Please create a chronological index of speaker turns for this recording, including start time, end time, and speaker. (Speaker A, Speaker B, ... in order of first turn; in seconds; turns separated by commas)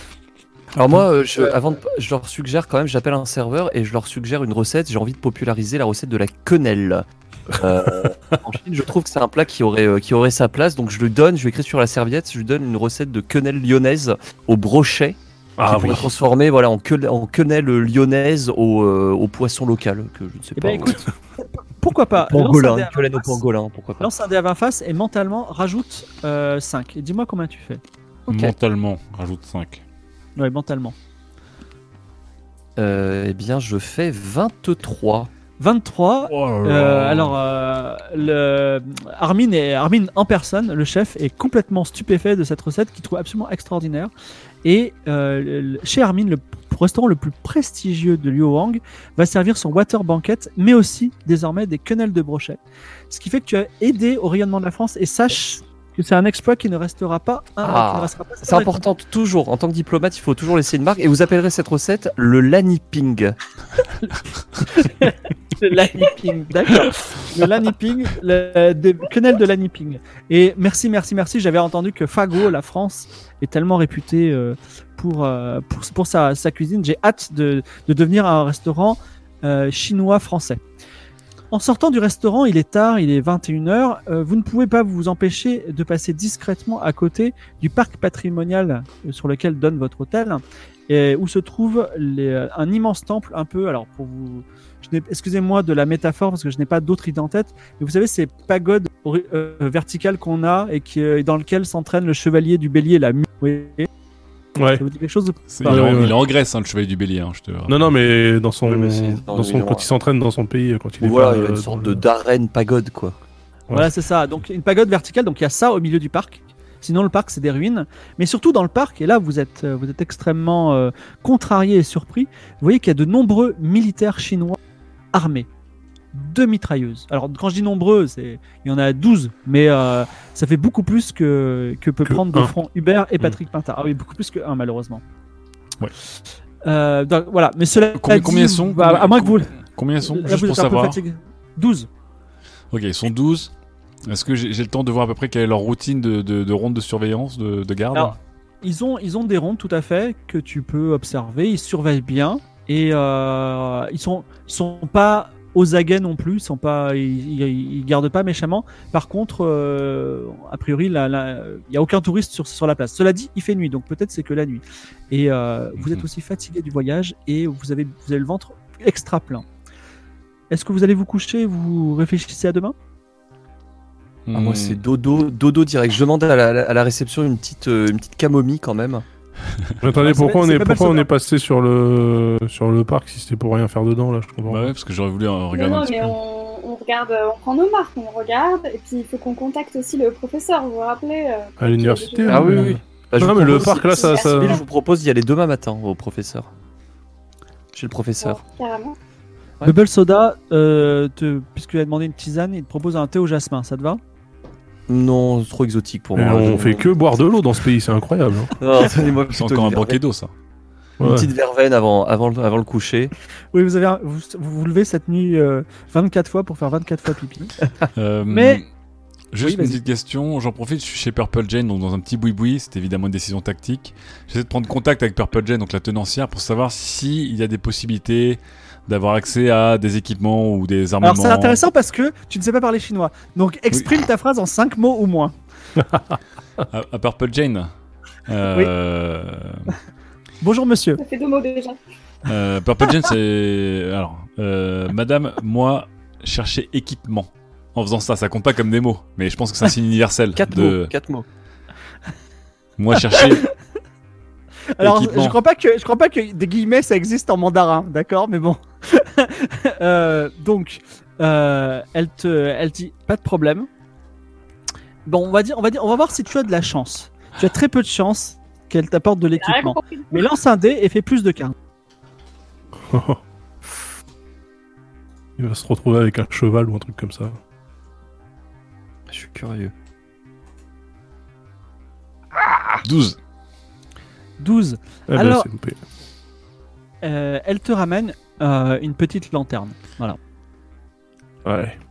Speaker A: 0.7-21.0, Speaker B: 15.6-16.1, Speaker C: 20.6-21.1, Speaker C: 21.8-23.4, Speaker A: 22.1-24.1, Speaker C: 24.0-27.8, Speaker A: 28.3-28.5, Speaker D: 28.3-29.8, Speaker C: 30.4-30.9, Speaker A: 32.8-35.3, Speaker C: 35.6-44.1, Speaker D: 36.2-37.4, Speaker C: 44.6-58.8, Speaker A: 57.6-63.4, Speaker C: 64.6-80.6, Speaker C: 81.5-103.9, Speaker B: 104.5-104.8, Speaker C: 104.8-106.1, Speaker D: 105.5-107.9, Speaker B: 105.6-106.2, Speaker B: 107.7-112.0, Speaker A: 108.6-109.9, Speaker A: 111.0-113.2, Speaker C: 113.7-124.6, Speaker C: 125.1-125.5, Speaker C: 126.1-135.0, Speaker B: 132.0-132.5, Speaker C: 136.6-141.9, Speaker D: 137.9-141.0, Speaker D: 142.7-143.5, Speaker D: 144.1-148.2, Speaker C: 147.9-169.4, Speaker D: 165.8-166.0, Speaker C: 170.5-172.7, Speaker D: 174.3-174.8, Speaker A: 174.3-179.0, Speaker B: 179.8-184.7, Speaker C: 180.0-181.1, Speaker D: 184.5-186.2, Speaker E: 185.5-192.7, Speaker B: 191.6-194.6, Speaker A: 192.3-196.5, Speaker E: 193.7-194.6, Speaker A: 197.7-198.4, Speaker E: 198.2-198.9, Speaker C: 199.6-204.0, Speaker A: 204.9-206.9, Speaker B: 206.2-208.5, Speaker A: 208.6-210.0, Speaker D: 209.3-210.3, Speaker B: 211.0-211.3, Speaker A: 211.0-213.1, Speaker C: 213.5-217.5, Speaker D: 217.9-218.6, Speaker C: 218.3-218.6, Speaker D: 219.3-231.6, Speaker C: 219.4-219.8, Speaker C: 231.0-235.3, Speaker B: 235.8-236.2, Speaker D: 236.7-237.7, Speaker D: 238.3-239.7, Speaker C: 240.4-241.0, Speaker E: 241.0-241.8, Speaker D: 242.2-250.9, Speaker A: 250.3-251.2, Speaker D: 252.8-253.5, Speaker C: 253.1-253.4, Speaker C: 254.8-263.7, Speaker D: 254.8-255.4, Speaker C: 265.1-271.5, Speaker E: 269.4-270.2, Speaker B: 272.9-273.2, Speaker B: 275.4-277.4, Speaker A: 279.1-279.7, Speaker D: 282.8-283.2, Speaker C: 284.4-285.5, Speaker B: 285.1-285.8, Speaker C: 287.0-290.2, Speaker B: 291.4-291.8